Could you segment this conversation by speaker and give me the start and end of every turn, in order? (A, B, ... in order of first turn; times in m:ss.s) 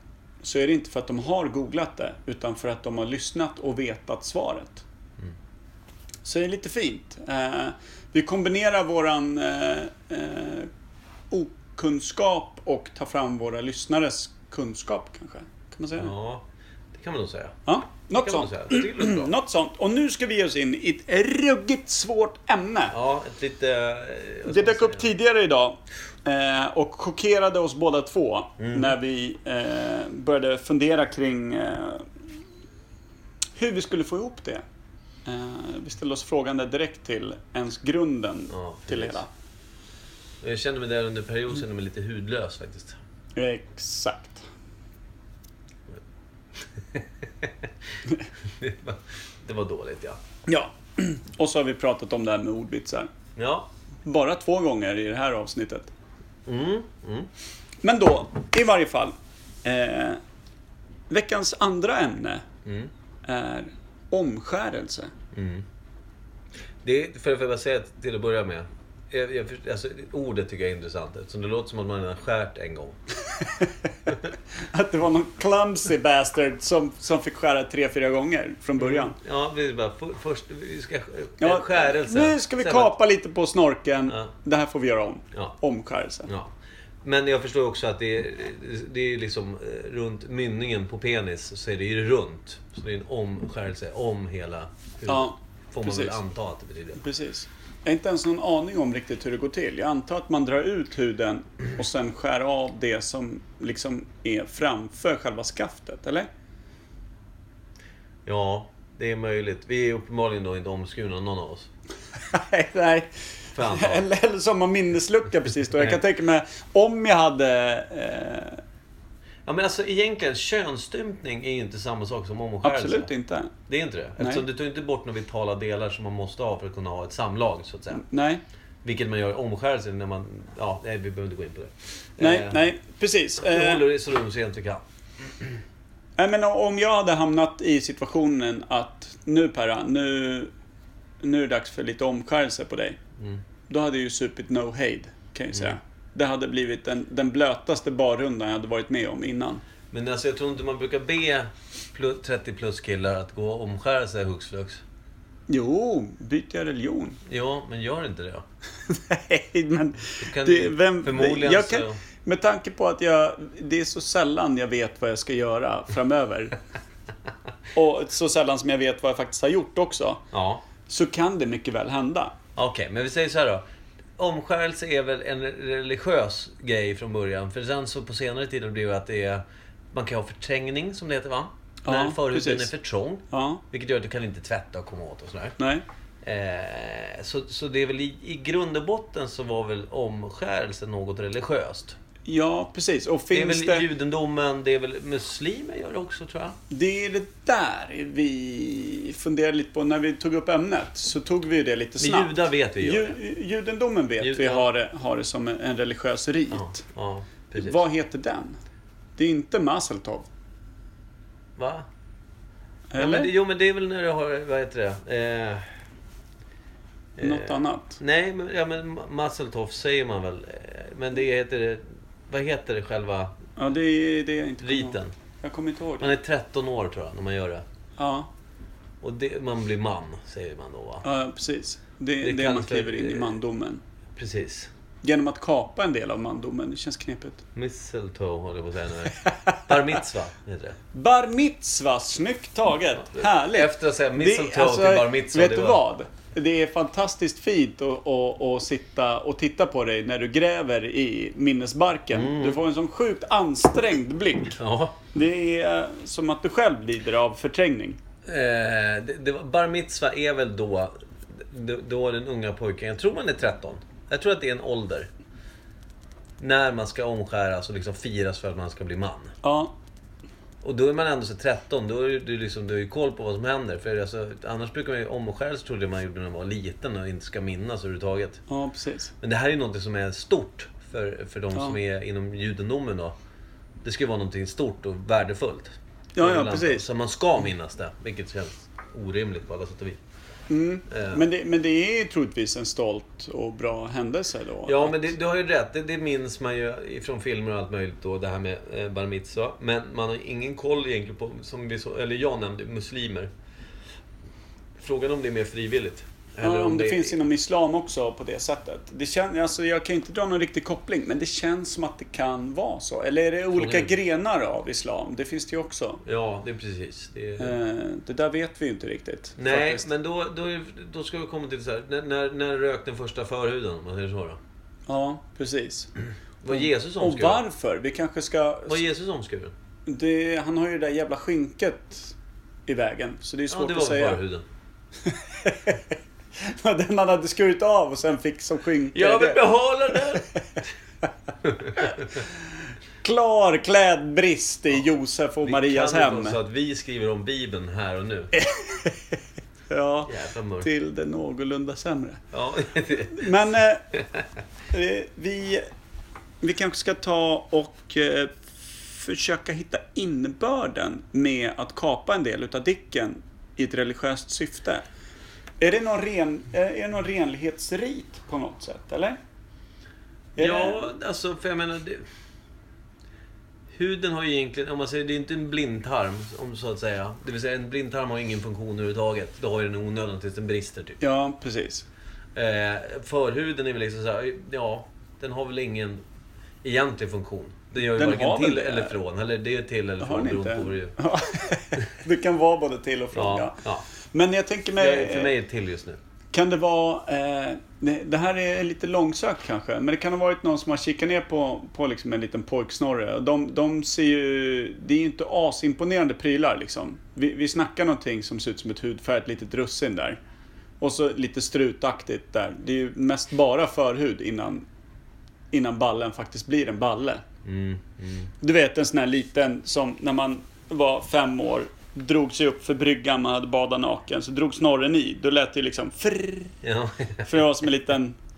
0:00.4-0:04.8 A
0:06.2-0:10.7 A
0:11.3-0:16.1 A
0:16.0-0:17.6 B
0:17.6-0:23.0 A
0:18.1-0:19.3 B
0:22.9-0:25.1 B
0:24.4-0:32.1 A
0:28.6-0:29.0 B
0:33.6-0:34.6 A
0:35.2-0:39.3 A
0:38.5-0:39.2 B
0:40.4-0:43.0 B
0:43.4-0:44.4 A
0:46.6-0:47.7 B
0:48.5-0:50.2 B
0:50.5-0:53.1 A
0:53.4-0:53.7 B
0:54.0-0:55.9 A
0:56.4-0:57.3 B
0:57.8-1:00.2 A
1:01.1-1:02.4 A
1:02.6-1:02.9 B
1:03.2-1:05.1 A
1:05.3-1:05.6 B
1:06.8-1:13.0 B
1:13.4-1:13.9 A
1:14.7-1:19.2 A
1:18.8-1:22.9 B
1:21.4-1:26.3 A
1:26.3-1:37.0 B
1:35.1-1:36.2 A
1:37.0-1:46.3 A
1:48.2-1:51.7 B
1:52.3-1:58.6 A
1:53.5-1:54.0 B
1:59.4-2:03.1 B
2:02.6-2:03.5 A
2:03.7-2:08.0 B
2:07.9-2:08.4 A
2:08.8-2:12.6 B
2:12.2-2:13.8 A
2:13.5-2:15.6 B
2:16.2-2:20.5 A
2:21.2-2:23.0 A
2:23.7-2:29.6 A
2:29.9-2:34.8 B
2:35.5-2:37.2 A
2:37.2-2:38.4 B
2:38.9-2:46.6 A
2:40.2-2:42.0 B
2:47.7-2:50.2 A
2:50.3-2:50.6 B
2:50.9-2:52.4 A
2:52.6-2:53.6 B
2:54.2-3:05.6 B
3:01.8-3:02.7 A
3:03.3-3:03.6 A
3:05.6-3:05.8 A
3:06.2-3:12.0 B
3:12.2-3:13.9 A
3:13.3-3:16.6 B
3:16.7-3:26.8 A
3:22.0-3:23.2 B
3:24.2-3:24.7 B
3:26.5-3:27.8 B
3:27.6-3:28.6 A
3:29.2-3:30.3 A
3:31.6-3:31.9 B
3:32.9-3:33.3 A
3:33.0-3:35.7 B
3:37.2-3:43.4 B
3:37.2-3:38.0 A
3:43.6-3:46.1 A
3:44.6-3:45.1 B
3:46.0-3:47.6 B
3:48.0-3:48.3 A
3:49.0-3:51.0 B
3:51.0-3:53.8 A
3:52.2-3:53.4 B
3:54.1-3:54.7 B
3:55.0-3:57.4 A
3:57.5-4:00.8 B
4:00.9-4:14.6 A
4:03.0-4:05.8 B
4:12.1-4:12.6 B
4:14.6-4:15.0 B
4:15.1-4:18.0 A
4:18.2-4:25.1 B
4:26.4-4:29.4 B
4:29.4-4:29.7 A
4:30.6-4:38.4 B
4:38.5-4:39.1 A
4:39.2-4:43.1 B
4:43.8-4:50.0 B
4:46.2-4:46.9 A
4:50.5-4:55.1 A
4:50.9-4:51.2 B
4:54.6-5:03.3 B
5:04.8-5:07.2 B
5:06.4-5:16.0 A
5:13.5-5:13.9 B
5:16.0-5:17.5 B
5:17.4-5:19.9 A
5:19.4-5:24.4 B
5:24.9-5:25.9 A
5:26.4-5:27.4 B
5:26.5-5:28.8 A
5:28.7-5:29.5 B
5:29.9-5:32.1 A
5:32.7-5:34.2 A
5:33.5-5:34.4 B
5:35.0-5:40.2 A
5:38.9-5:40.3 B
5:41.4-5:42.0 B
5:43.0-5:46.4 A
5:45.4-5:48.3 B
5:48.3-5:49.2 A
5:49.7-5:52.2 A
5:50.1-5:50.7 B
5:52.3-5:53.3 B
5:53.0-5:53.9 A
5:54.7-5:55.6 A
5:56.4-6:04.8 A
6:05.6-6:09.2 A
6:10.4-6:10.9 A
6:10.4-6:12.0 B
6:13.7-6:21.0 B
6:21.0-6:21.9 A
6:22.4-6:26.0 B
6:26.6-6:30.9 B
6:27.8-6:28.9 A
6:30.0-6:33.6 A
6:33.1-6:33.8 B
6:34.1-6:35.3 A
6:34.8-6:36.0 B
6:36.3-6:50.2 A
6:50.8-6:54.6 A
6:55.5-6:57.2 A
6:57.4-6:58.3 B
6:58.4-7:06.6 A
7:06.6-7:07.4 B
7:07.2-7:08.2 A